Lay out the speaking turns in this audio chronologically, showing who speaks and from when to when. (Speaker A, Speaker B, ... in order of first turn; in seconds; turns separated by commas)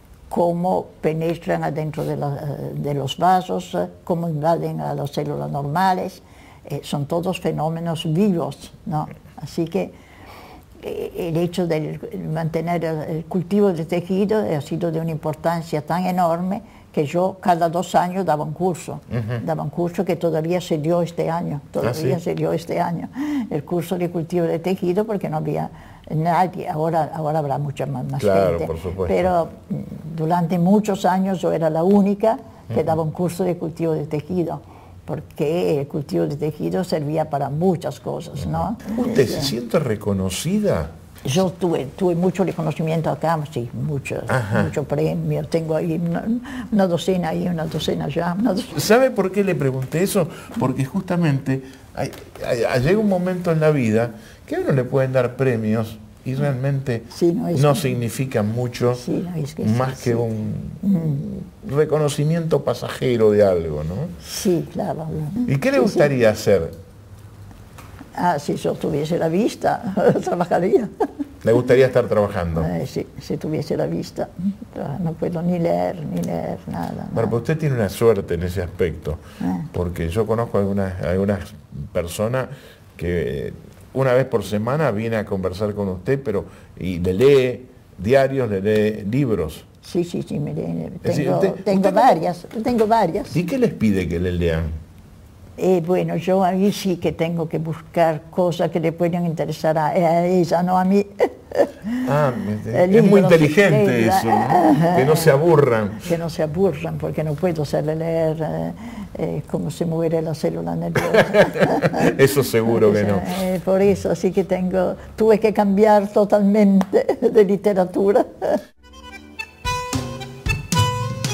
Speaker A: 0.3-9.9, Speaker A: 10.8-39.5, Speaker B: 19.1-19.4, Speaker B: 21.8-22.2, Speaker B: 28.2-29.3, Speaker B: 38.6-40.9, Speaker A: 41.2-48.8, Speaker B: 44.3-44.7, Speaker B: 48.7-59.0, Speaker A: 57.1-57.9, Speaker A: 58.9-60.3, Speaker B: 59.6-64.1, Speaker A: 60.8-61.2, Speaker A: 64.2-66.1, Speaker B: 65.5-66.8, Speaker A: 68.2-70.9, Speaker B: 71.4-72.7, Speaker A: 72.5-77.3, Speaker B: 77.1-89.7, Speaker A: 79.4-79.7, Speaker A: 89.8-93.4, Speaker B: 91.0-92.2, Speaker B: 93.3-94.7, Speaker A: 95.6-102.0, Speaker B: 102.0-106.1, Speaker A: 102.7-105.3, Speaker A: 106.0-118.6, Speaker B: 111.1-113.4